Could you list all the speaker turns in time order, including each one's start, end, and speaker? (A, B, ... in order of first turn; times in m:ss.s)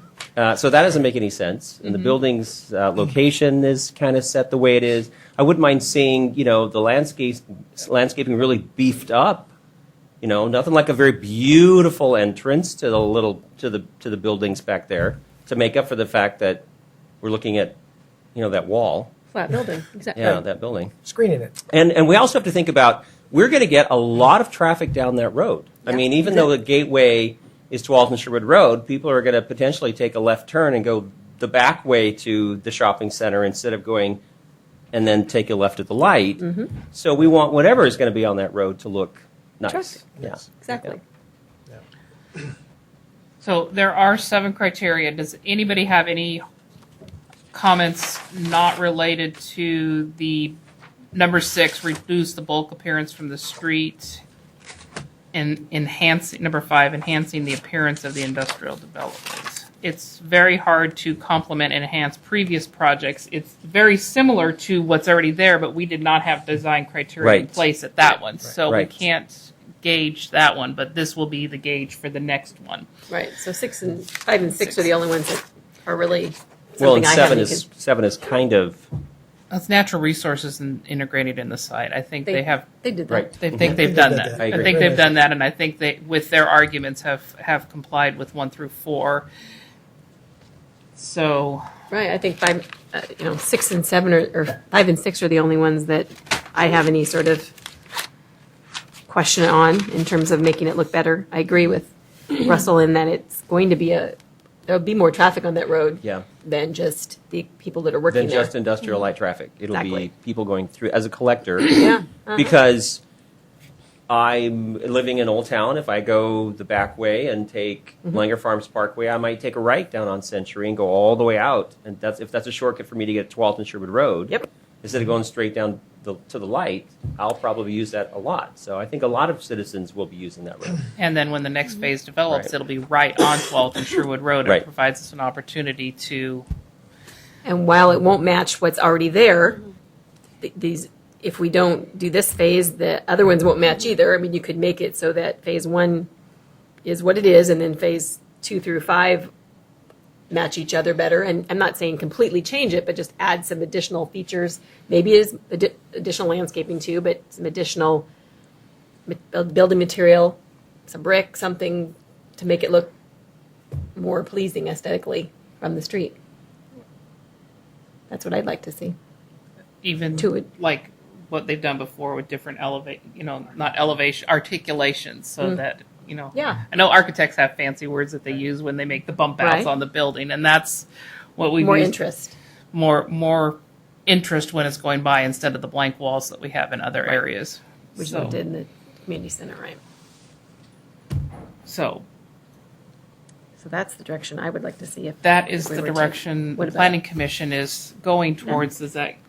0:00.4-0:09.5 A
0:01.9-0:02.1 B
0:10.2-0:16.6 A
0:17.2-0:17.8 A
0:18.3-0:19.1 A
0:19.3-0:20.3 B
0:20.2-0:20.9 A
0:21.0-0:21.5 C
0:21.7-0:34.2 A
0:25.9-0:26.1 B
0:34.9-0:41.0 A
0:36.4-0:36.7 B
0:39.7-0:40.0 B
0:40.6-0:41.0 B
0:43.4-0:46.4 D
0:47.5-0:50.6 D
0:51.1-0:54.2 D
0:55.3-1:12.9 D
1:07.2-1:07.6 A
1:13.1-1:17.6 B
1:14.6-1:14.9 D
1:16.8-1:18.9 A
1:19.5-1:22.6 D
1:22.3-1:23.7 B
1:23.1-1:23.3 A
1:23.4-1:29.3 D
1:23.6-1:25.1 C
1:24.4-1:24.7 A
1:31.0-1:31.6 D
1:31.9-1:37.5 B
1:39.1-1:44.2 B
1:44.7-1:48.5 B
1:48.1-1:53.0 A
1:49.7-1:50.1 B
1:51.7-1:52.5 B
1:54.1-2:10.8 A
2:11.0-2:16.4 D
2:17.4-2:19.6 B
2:20.4-2:26.1 B
2:26.8-2:29.3 B
2:30.3-2:38.1 B
2:39.1-2:42.9 B
2:44.0-2:46.1 B
2:48.1-2:48.9 B
2:49.8-3:00.8 D
2:50.2-2:50.5 B
2:56.3-2:56.6 B
2:59.4-2:59.7 B
3:01.4-3:02.0 D
3:01.6-3:02.3 B
3:02.7-3:08.4 D
3:08.0-3:09.8 B
3:11.6-3:12.0 D
3:13.6-3:17.0 B
3:15.2-3:19.2 D